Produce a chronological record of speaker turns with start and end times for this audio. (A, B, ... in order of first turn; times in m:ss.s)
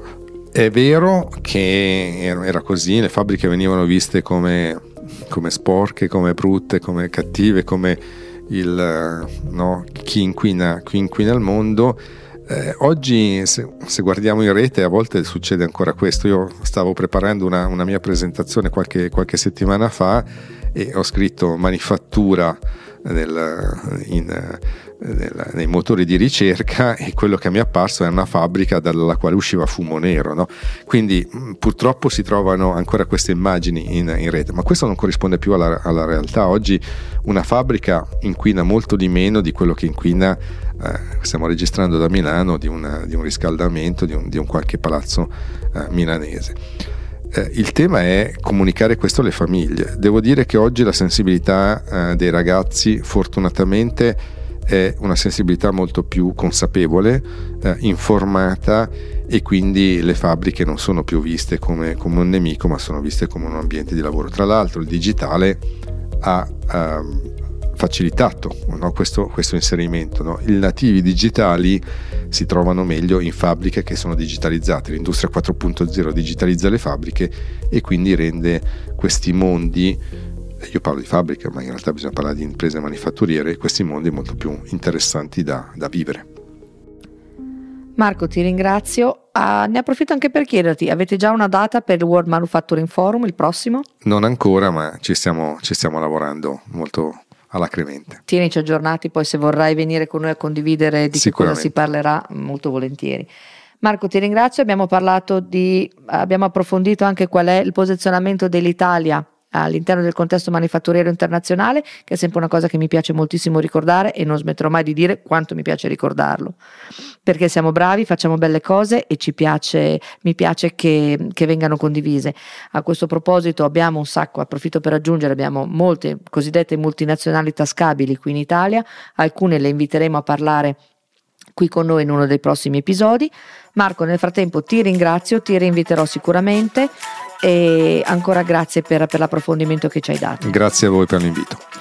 0:00.5-0:46.6 A
0:47.3-1:05.6 A
1:06.2-1:20.0 A
1:20.6-1:26.3 A
1:28.0-1:33.8 B
1:34.0-1:38.2 A
1:38.3-1:43.3 B
1:41.1-1:41.7 A
1:43.8-1:56.6 B
1:57.2-2:10.8 B
2:11.6-2:20.6 B
2:20.4-2:21.6 A